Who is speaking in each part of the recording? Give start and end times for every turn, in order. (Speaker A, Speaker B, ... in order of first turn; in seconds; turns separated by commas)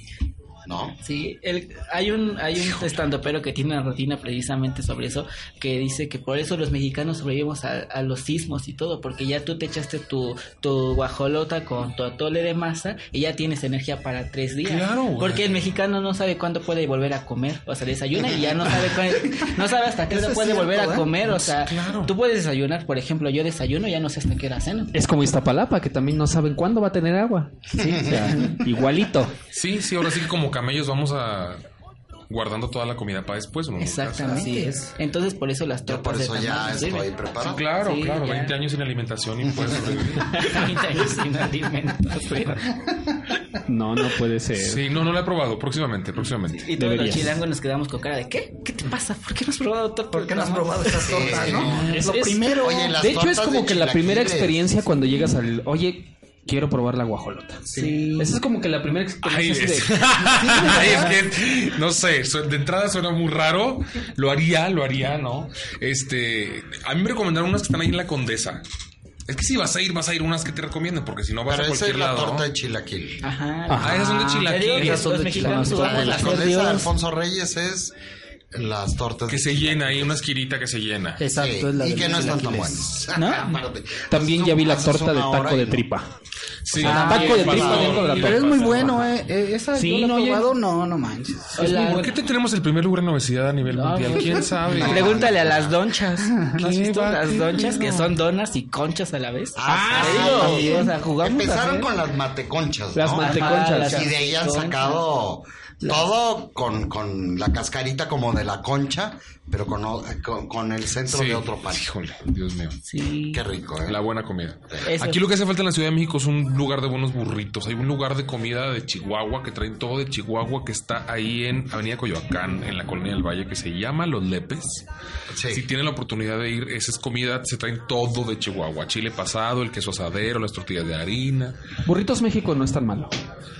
Speaker A: 0.7-1.0, Speaker B: 1.0-24.9, Speaker C: 14.6-15.7, Speaker D: 20.1-21.1, Speaker C: 21.4-22.1, Speaker E: 24.9-29.3, Speaker A: 27.7-28.5, Speaker B: 27.8-28.6, Speaker C: 29.5-31.6, Speaker C: 32.3-34.5, Speaker B: 33.8-37.1, Speaker D: 34.3-34.9, Speaker A: 35.9-37.7, Speaker C: 37.4-40.6, Speaker B: 37.8-38.5, Speaker A: 39.5-39.8, Speaker B: 40.2-42.7, Speaker E: 43.7-44.8, Speaker C: 44.6-46.7, Speaker B: 46.5-51.9, Speaker E: 46.8-47.4, Speaker D: 50.1-53.0, Speaker A: 51.0-54.6, Speaker E: 51.9-57.7, Speaker D: 57.7-58.0, Speaker B: 57.7-58.4, Speaker E: 58.2-60.9, Speaker C: 59.2-68.6, Speaker D: 60.6-61.0, Speaker C: 69.3-72.5, Speaker A: 71.5-73.2, Speaker B: 73.2-76.9, Speaker E: 73.7-74.5, Speaker C: 73.8-75.2, Speaker D: 74.7-76.3, Speaker E: 75.2-76.2, Speaker A: 75.6-77.9, Speaker A: 78.5-80.2, Speaker C: 79.3-81.2, Speaker D: 81.2-82.9, Speaker A: 81.3-85.9, Speaker B: 83.1-83.5, Speaker E: 84.1-86.1, Speaker C: 86.6-89.1, Speaker E: 86.8-89.1, Speaker D: 86.8-91.6, Speaker A: 87.4-88.0, Speaker E: 89.8-90.5, Speaker E: 91.6-92.1, Speaker B: 91.6-92.1, Speaker C: 91.8-95.3, Speaker B: 93.7-101.9, Speaker A: 94.7-95.8, Speaker D: 96.3-97.9, Speaker C: 96.6-97.4, Speaker A: 99.6-111.8, Speaker E: 99.7-100.7, Speaker D: 100.3-100.9, Speaker E: 102.9-104.0, Speaker B: 103.2-105.0, Speaker D: 103.3-104.0, Speaker C: 111.1-112.8, Speaker B: 112.9-113.4, Speaker A: 113.3-114.0, Speaker C: 113.9-124.8, Speaker B: 114.9-115.2, Speaker A: 125.3-125.7, Speaker C: 125.5-131.6, Speaker E: 131.9-133.1